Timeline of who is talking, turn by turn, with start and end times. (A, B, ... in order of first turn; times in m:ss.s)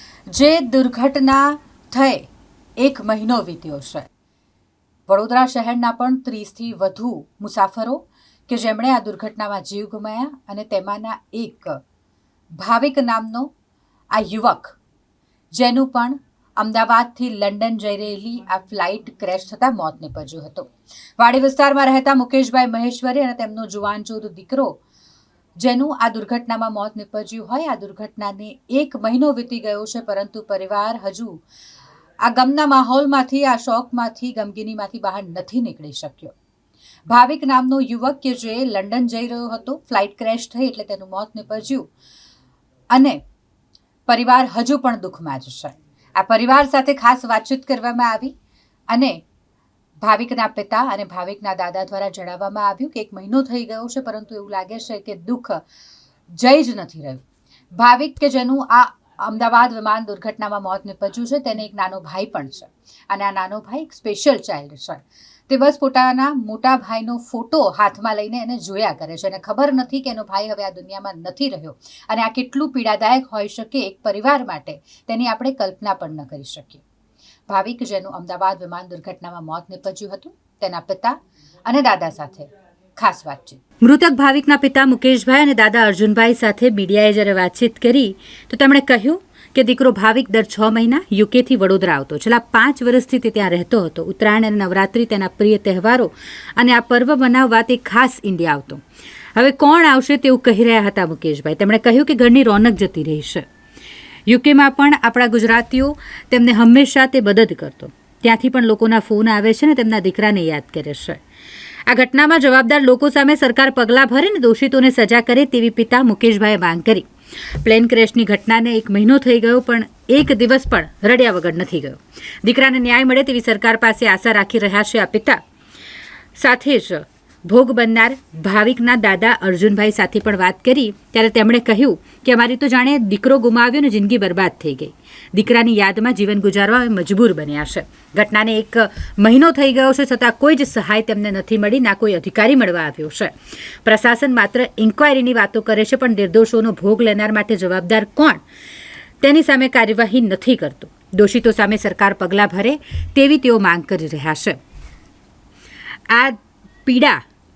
0:00.3-0:04.0 A
0:05.1-0:11.8 A
0:12.6-0:13.5 A
0:14.1-0:14.8 A
0:15.5-0:24.8 A
0:25.6-0:31.4 A
0:32.2-0:36.3 A
0:37.1-0:41.9 A
0:42.9-0:43.2 A
0:44.1-0:48.3 A
0:48.9-0:49.2 A
0:50.0-0:55.6 A
0:56.3-0:57.2 A
0:57.7-1:16.8 A
1:17.5-1:38.8 A
1:39.4-1:43.4 A
1:44.3-1:51.2 A
1:51.9-1:57.1 A
1:57.6-2:05.4 A
2:06.4-2:23.3 A
2:23.8-2:28.4 A
2:29.2-2:34.6 A
2:36.1-2:37.2 A